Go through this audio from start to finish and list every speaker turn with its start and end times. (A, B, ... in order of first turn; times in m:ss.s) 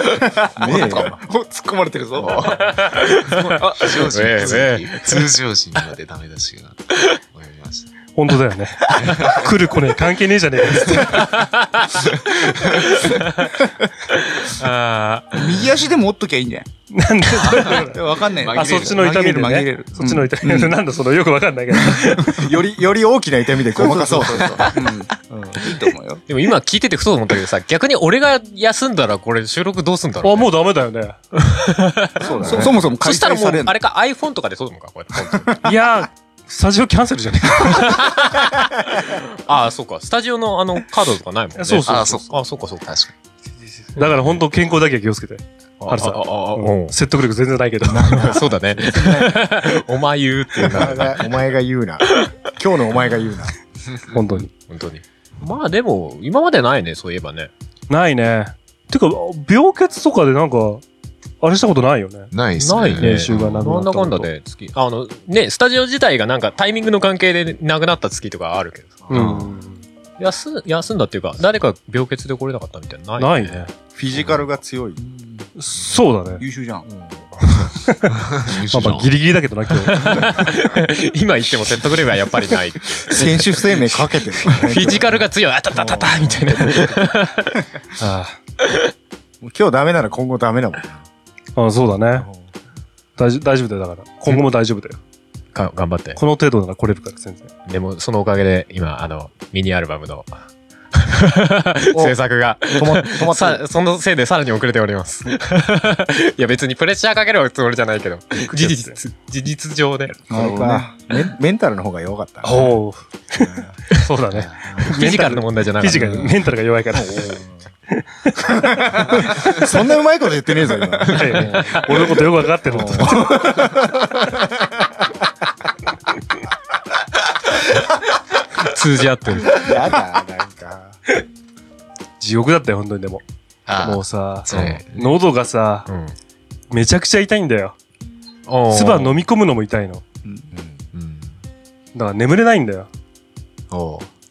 0:00.6-0:01.2 A
0:00.6-0:01.1 B
0:00.6-0:02.5 C
0:02.2-0:07.9 B
0:02.2-0:05.8 D
0:08.1-0:11.3 E
0:08.9-0:09.5 B
0:11.1-0:15.6 D
0:15.3-0:16.7 C
0:16.9-0:22.4 E
0:17.4-0:19.1 B
0:17.7-0:20.8 C
0:22.3-0:25.7 A
0:23.7-0:26.2 C
0:26.3-0:30.5 D
0:30.2-0:31.2 E
0:31.4-0:35.6 D
0:32.2-0:33.7 C
0:32.3-0:32.7 A
0:35.6-0:38.1 E
0:37.7-0:42.9 D
0:41.6-0:42.2 E
0:41.8-0:43.1 B
0:43.8-0:48.3 E
0:44.0-0:44.2 D
0:45.8-0:47.0 D
0:47.8-0:49.5 A
0:48.0-0:51.3 D
0:50.6-0:53.5 A
0:54.1-0:54.5 E
0:54.6-0:57.5 D
0:57.9-1:00.8 E
1:01.4-1:02.3 E
1:02.3-1:03.6 B
1:02.6-1:09.4 D
1:03.0-1:04.3 E
1:09.1-1:09.8 E
1:09.1-1:09.5 B
1:10.2-1:13.6 D
1:13.2-1:13.7 E
1:13.9-1:15.0 A
1:15.0-1:15.5 C
1:15.6-1:16.4 E
1:16.4-1:16.9 C
1:16.9-1:17.2 A
1:17.5-1:18.0 E
1:18.2-1:19.2 B
1:18.7-1:20.3 E
1:19.9-1:23.3 D
1:23.1-1:27.1 A
1:24.4-1:27.6 D
1:28.0-1:28.4 E
1:29.4-1:31.0 A
1:31.6-1:32.3 E
1:33.2-1:35.0 E
1:35.5-1:36.2 D
1:36.2-1:37.5 E
1:37.7-1:50.2 D
1:42.6-1:43.6 A
1:48.5-1:49.0 E
1:50.3-1:50.9 C
1:50.3-1:52.8 A
1:52.4-1:57.4 E
1:53.4-1:53.7 A
1:54.8-1:56.3 D
1:56.9-1:57.5 A
1:57.9-1:59.6 E
1:58.5-2:01.8 A
2:01.1-2:03.4 E
2:02.7-2:04.7 A
2:08.6-2:09.7 D
2:09.4-2:11.0 A
2:12.2-2:13.2 E
2:13.7-2:15.2 B
2:13.8-2:15.9 E
2:14.5-2:14.8 D
2:15.9-2:16.1 D
2:16.7-2:17.8 E
2:18.5-2:19.2 D
2:18.7-2:20.0 E
2:20.5-2:20.8 A
2:20.9-2:21.3 B
2:21.9-2:22.9 E
2:23.7-2:24.1 B